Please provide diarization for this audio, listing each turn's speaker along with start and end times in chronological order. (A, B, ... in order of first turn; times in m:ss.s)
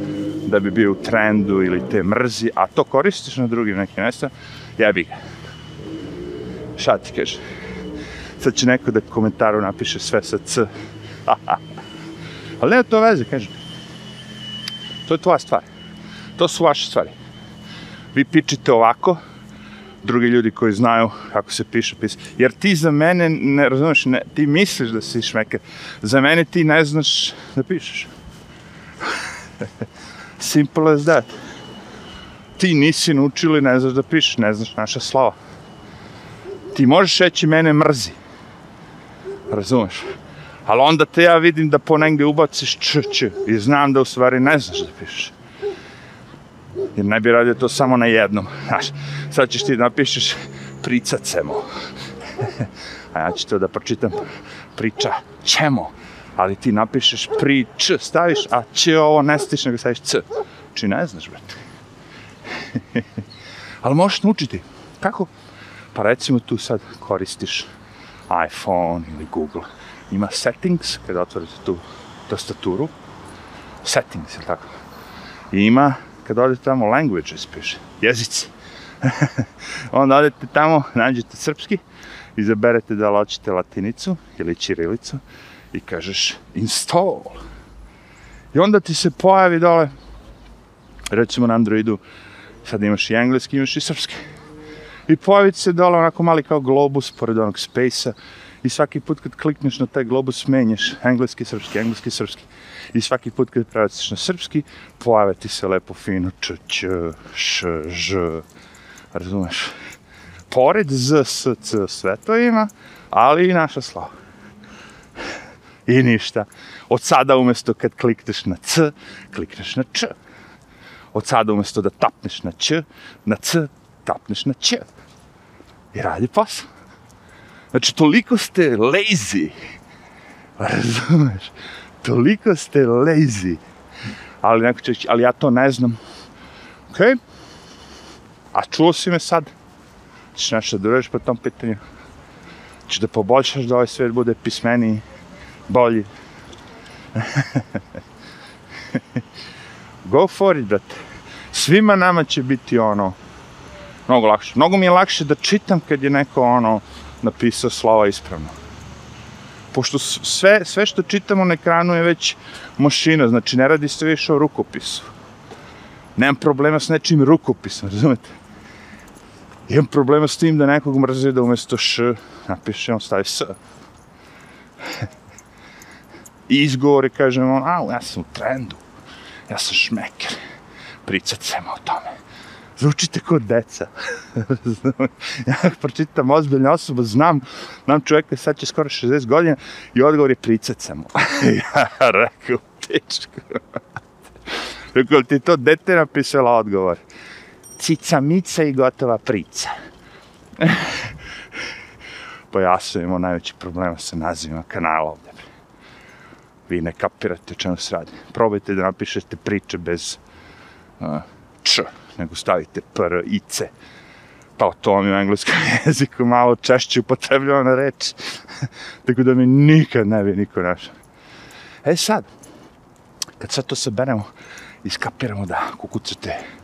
0:00.4-0:05.2 A
0:06.8-0:07.4 A
0:08.4-0:10.7 A
0:11.2-0:11.6 A
0:12.6-0:13.5 A
0:15.0-0:15.7 A
0:16.4-0:17.1 A
0:18.1-0:19.2 A
0:20.0-0:28.1 A
0:30.4-0:31.3 A
0:32.6-0:35.4 A
0:36.7-0:38.2 A
0:39.5-0:40.0 A
0:40.6-0:45.3 A
0:46.9-0:51.7 A
0:52.4-0:54.2 A
0:54.7-1:01.6 A
1:02.5-1:03.1 A
1:03.8-1:05.3 A
1:05.9-1:07.7 A
1:08.3-1:12.9 A
1:13.8-1:14.7 A
1:15.5-1:21.8 A
1:22.4-1:25.2 A
1:25.7-1:27.4 A
1:28.5-1:29.9 A
1:31.1-1:32.0 A
1:32.6-1:34.2 A
1:35.1-1:48.4 A
1:49.1-1:49.8 A
1:50.5-1:54.1 A
1:55.8-2:00.2 A
2:01.1-2:04.9 A
2:05.9-2:06.7 A
2:07.7-2:09.5 A
2:10.6-2:13.6 A
2:14.4-2:16.0 A
2:16.9-2:17.2 A
2:18.5-2:19.5 A
2:20.3-2:21.8 A
2:22.9-2:25.0 A
2:25.7-2:26.1 A
2:27.1-2:27.8 A
2:28.9-2:29.2 A
2:30.0-2:31.0 A
2:31.5-2:33.2 A
2:34.1-2:38.5 A
2:39.7-2:45.1 A
2:46.2-2:48.3 A
2:49.7-2:53.6 A
2:56.5-2:58.8 A
2:59.5-3:00.4 A
3:01.0-3:02.2 A
3:02.8-3:13.8 A
3:14.5-3:17.0 A
3:17.8-3:19.7 A
3:20.6-3:21.1 A
3:22.5-3:25.5 A
3:26.7-3:30.2 A
3:31.0-3:33.7 A
3:34.6-3:40.9 A
3:41.8-3:42.3 A
3:43.4-3:44.3 A
3:44.8-3:46.4 A